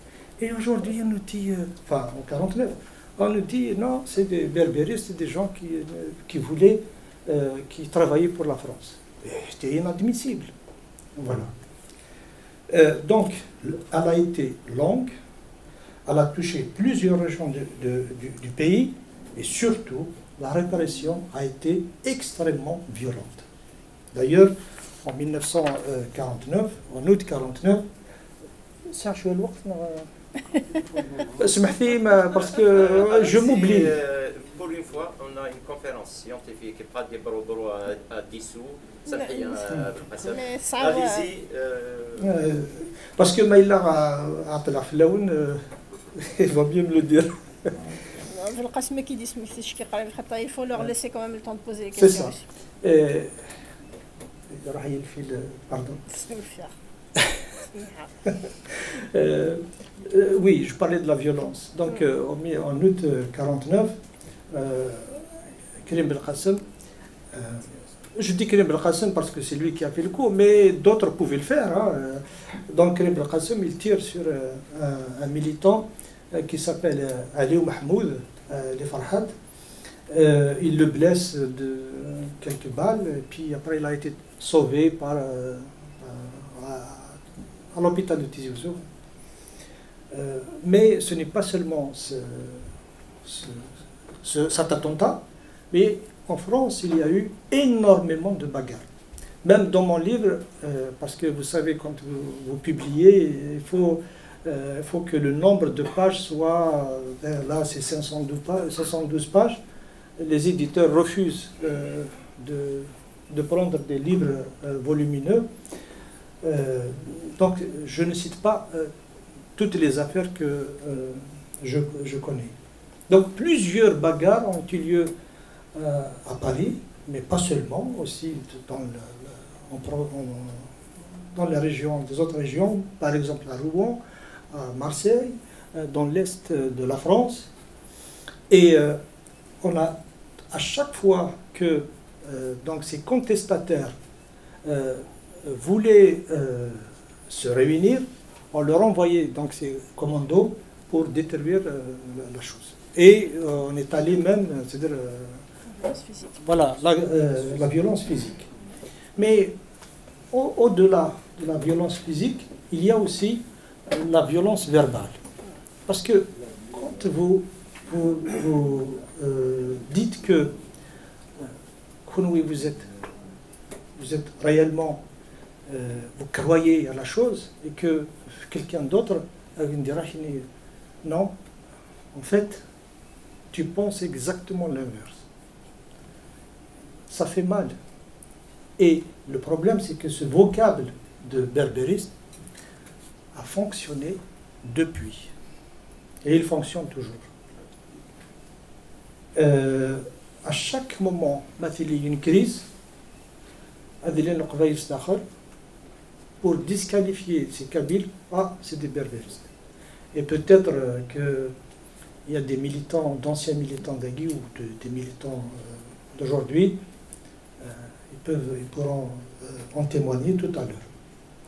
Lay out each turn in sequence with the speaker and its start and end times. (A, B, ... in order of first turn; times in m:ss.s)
0:00.4-0:10.5 A
0:11.2-0:11.5 A
0:12.7-0:15.1 A
0:16.0-0:23.4 A
0:24.1-0:24.5 A
0:25.0-0:27.8 A
0:28.9-0:30.1 A
0:31.1-0:34.0 A
0:32.5-0:42.3 B
0:39.1-0:39.5 C
0:40.3-0:41.3 C
0:42.2-0:45.6 A
0:46.1-0:47.9 A
0:48.2-0:52.4 C
0:52.0-0:53.4 A
0:54.5-0:56.0 A
0:56.1-0:56.7 C
0:57.7-0:58.1 C
0:58.2-1:03.9 A
1:04.5-1:06.6 A
1:07.3-1:19.3 A
1:20.1-1:27.2 A
1:27.7-1:28.8 A
1:30.1-1:32.7 A
1:33.2-1:33.7 A
1:34.2-1:38.9 A
1:39.4-1:49.6 A
1:50.2-1:55.5 A
1:56.4-1:58.9 A
1:59.6-2:02.5 A
2:03.1-2:05.1 A
2:05.7-2:10.7 A
2:11.3-2:14.0 A
2:14.5-2:17.5 A
2:18.5-2:19.0 A
2:19.6-2:20.0 A
2:20.5-2:24.0 A
2:24.6-2:35.4 A
2:35.8-2:36.4 C
2:36.4-2:38.5 A
2:39.2-2:39.5 A
2:40.3-2:45.2 A
2:45.8-2:50.5 A
2:52.0-2:52.9 A
2:54.0-2:55.0 A
2:55.7-3:00.4 A
3:01.0-3:01.4 A
3:02.1-3:02.6 A
3:03.5-3:05.3 A
3:07.1-3:07.7 A
3:08.8-3:12.1 A
3:13.3-3:15.3 A
3:16.2-3:17.3 A
3:19.3-3:22.7 A
3:24.0-3:25.2 A
3:26.4-3:29.5 A
3:30.1-3:31.5 A
3:32.2-3:36.8 A
3:37.6-3:40.9 A